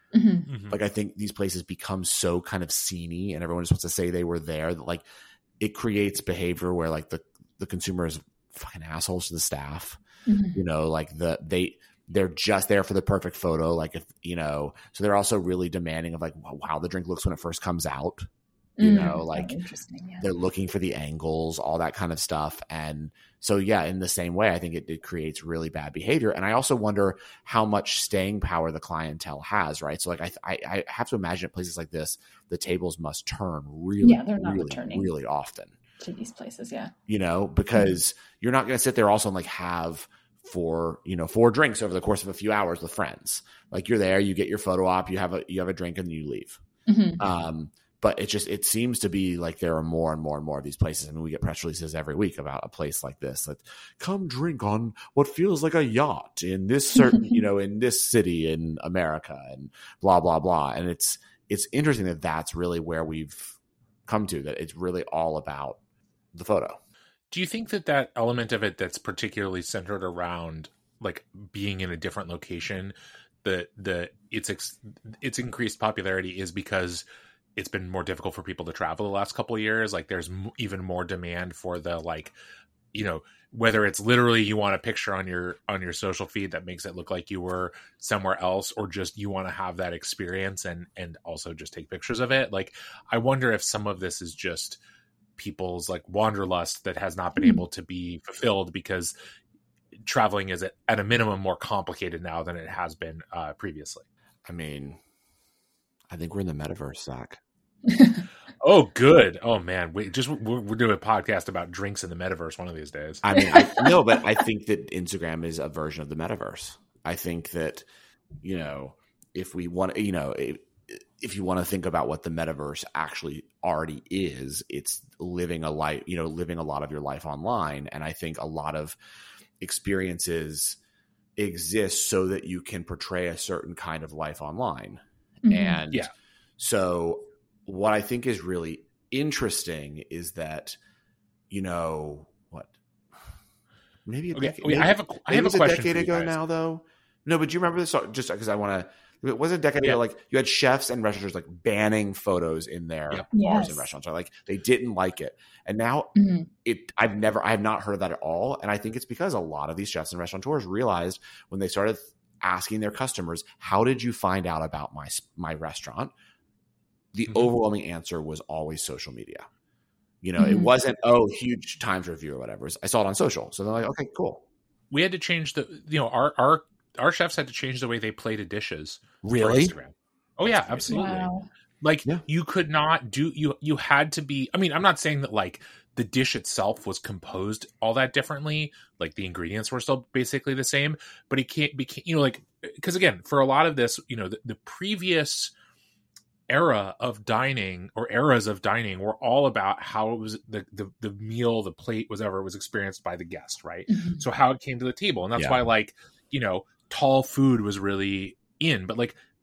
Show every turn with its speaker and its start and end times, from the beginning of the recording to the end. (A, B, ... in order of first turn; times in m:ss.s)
0:00.1-0:00.5 A
0:00.5-0:00.8 B
0:00.7-0:05.0 C
0:05.6-0:10.0 C
0:10.3-0:10.6 A
0:10.6-0:18.3 C
0:18.8-0:20.3 A
0:18.8-0:19.6 C
0:20.2-0:35.8 C
0:34.0-0:35.1 A
0:36.0-0:36.9 A
0:37.1-0:46.6 C
0:46.9-0:47.2 A
0:47.2-1:05.8 C
1:06.3-1:06.8 C
1:07.3-1:17.0 B
1:17.6-1:22.4 B
1:22.9-1:34.8 B
1:35.4-1:39.2 B
1:37.4-1:37.6 A
1:40.0-1:44.0 B
1:44.4-1:45.0 C
1:46.1-1:47.4 C
1:47.9-1:48.2 A
1:48.6-1:53.4 B
1:53.2-1:57.9 C
1:58.4-2:09.0 C
2:09.6-2:10.8 C
2:11.4-2:20.8 C
2:15.4-2:15.8 A
2:21.5-2:23.3 C
2:24.1-2:46.1 C
2:24.3-2:26.4 B
2:33.3-2:33.9 A
2:36.2-2:36.5 A
2:47.1-2:49.5 C
2:50.2-2:54.4 C
2:50.4-2:50.7 A
2:54.9-3:01.3 B
2:59.2-2:59.7 C
3:00.4-3:01.2 C
3:00.9-3:01.5 A
3:01.8-3:15.5 B
3:16.5-3:29.2 B
3:23.9-3:24.2 A
3:25.4-3:25.6 C